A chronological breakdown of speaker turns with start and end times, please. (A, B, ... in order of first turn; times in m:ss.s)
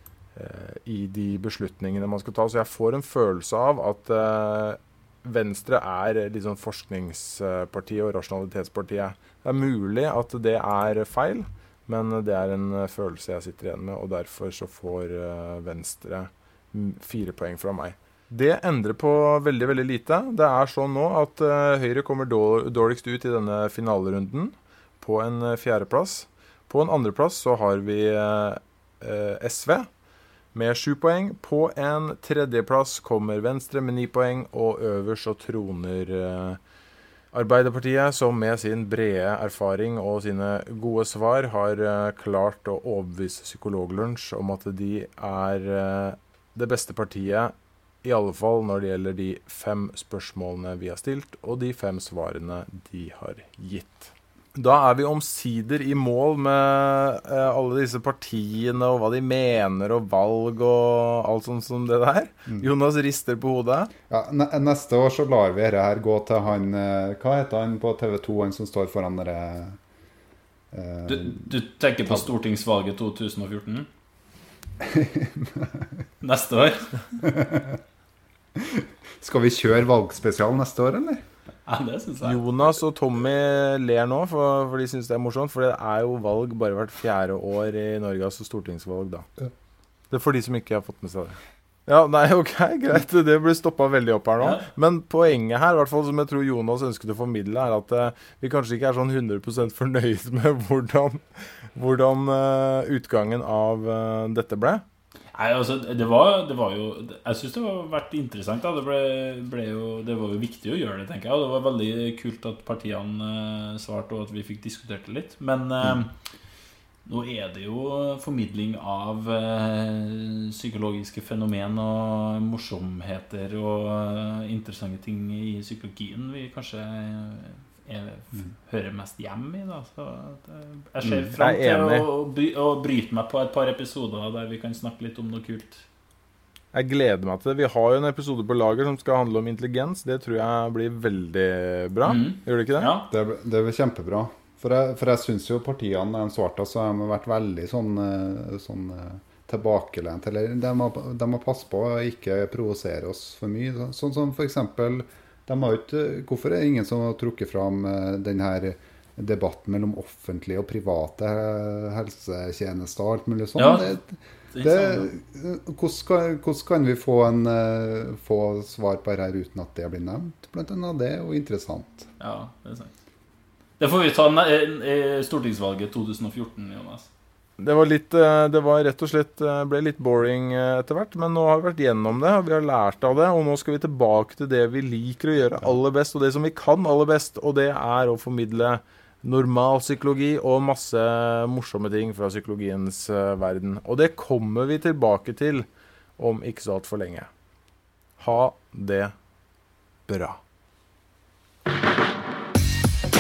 0:00.4-0:29.9 A
0:30.5-0:36.6 A
0:37.3-1:03.9 A
1:04.1-1:09.8 B
1:10.7-1:11.6 B
1:11.1-1:13.9 C
1:14.8-1:16.0 B
1:16.2-1:17.2 C
1:17.2-1:17.8 B
1:18.6-1:21.2 B
1:21.6-1:22.4 C
1:22.2-1:29.3 A
1:30.1-1:44.8 A
1:34.4-1:34.6 C
1:45.3-1:56.3 C
1:57.0-2:15.8 C
2:11.0-2:12.1 A
2:16.7-2:22.9 A
2:22.0-2:23.1 C
2:23.1-2:52.1 B
2:43.6-2:44.0 C
2:44.5-2:45.1 C
2:52.2-2:52.9 C
2:53.8-2:57.1 C
2:57.6-3:17.3 A
3:18.2-3:19.1 A
3:20.1-3:20.4 A